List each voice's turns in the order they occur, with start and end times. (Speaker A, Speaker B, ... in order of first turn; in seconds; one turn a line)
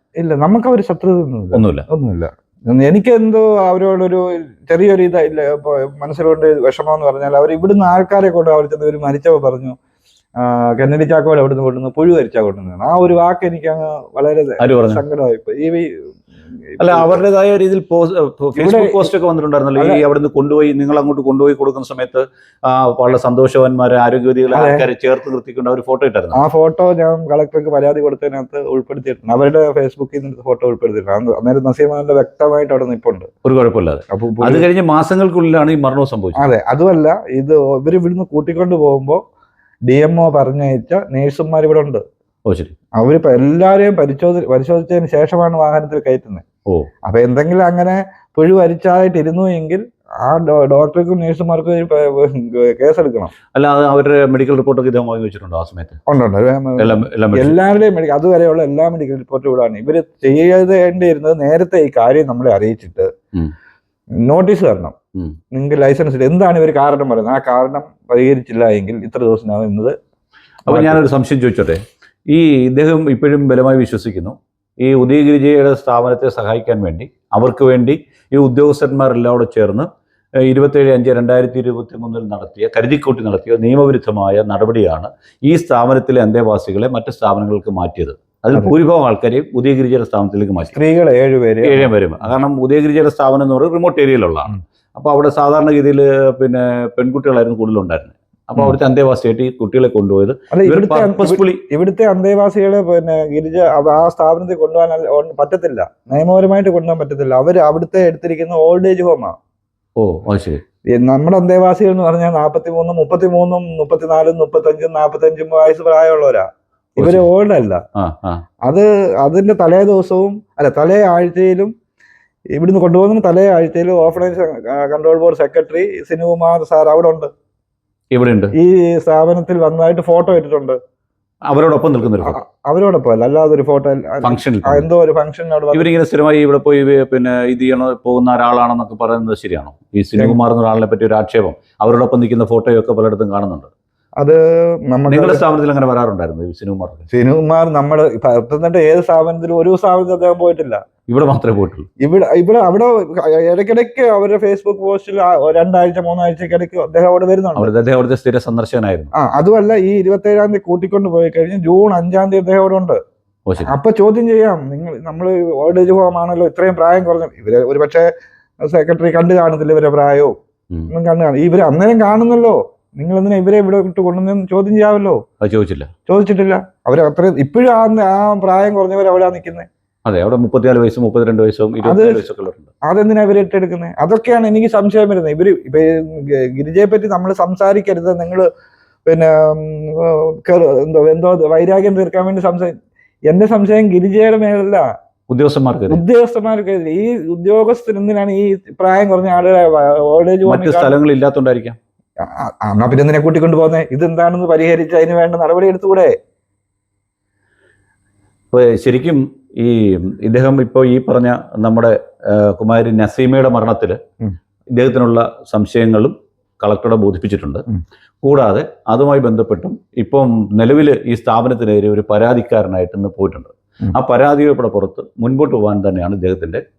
Speaker A: 0.2-9.8
Speaker B: 1.5-1.9
Speaker A: 10.4-16.0
Speaker B: 14.6-15.0
Speaker A: 16.7-17.2
Speaker B: 16.8-26.4
Speaker A: 18.6-19.1
Speaker A: 19.8-20.0
Speaker A: 24.5-24.9
Speaker A: 26.3-33.3
Speaker B: 33.4-36.5
Speaker A: 34.1-34.6
Speaker A: 36.4-39.2
Speaker A: 39.9-42.0
Speaker B: 42.5-42.7
Speaker A: 43.0-46.4
Speaker A: 47.0-53.3
Speaker B: 53.5-56.0
Speaker A: 56.1-63.1
Speaker B: 56.8-57.5
Speaker A: 64.2-64.9
Speaker A: 65.5-69.9
Speaker A: 70.7-71.0
Speaker B: 70.7-79.9
Speaker B: 80.4-90.7
Speaker A: 90.7-91.9
Speaker B: 91.6-101.6
Speaker A: 100.5-109.3
Speaker B: 110.0-110.6
Speaker A: 110.9-117.8
Speaker B: 117.0-117.3
Speaker B: 118.0-118.4
Speaker A: 118.6-121.7
Speaker A: 122.5-127.3
Speaker B: 128.1-128.5
Speaker A: 128.5-130.8
Speaker B: 131.5-132.4
Speaker A: 132.2-135.9
Speaker B: 134.2-134.9
Speaker B: 135.7-143.7
Speaker A: 144.2-145.4
Speaker B: 145.1-147.1
Speaker A: 147.1-150.8
Speaker B: 151.1-151.9
Speaker A: 152.0-157.7
Speaker B: 157.6-159.1
Speaker A: 159.1-163.0
Speaker B: 163.5-163.7
Speaker A: 163.6-168.1
Speaker A: 168.6-170.3
Speaker A: 170.9-175.2
Speaker B: 175.4-175.9
Speaker A: 176.1-179.7
Speaker B: 180.1-182.7
Speaker A: 181.8-182.2
Speaker A: 182.8-188.4
Speaker A: 189.1-192.7
Speaker A: 193.3-194.9
Speaker B: 195.3-196.0
Speaker A: 195.9-200.9
Speaker B: 200.5-201.8
Speaker A: 202.2-206.1
Speaker B: 208.5-214.0
Speaker B: 214.7-217.6
Speaker B: 218.2-226.6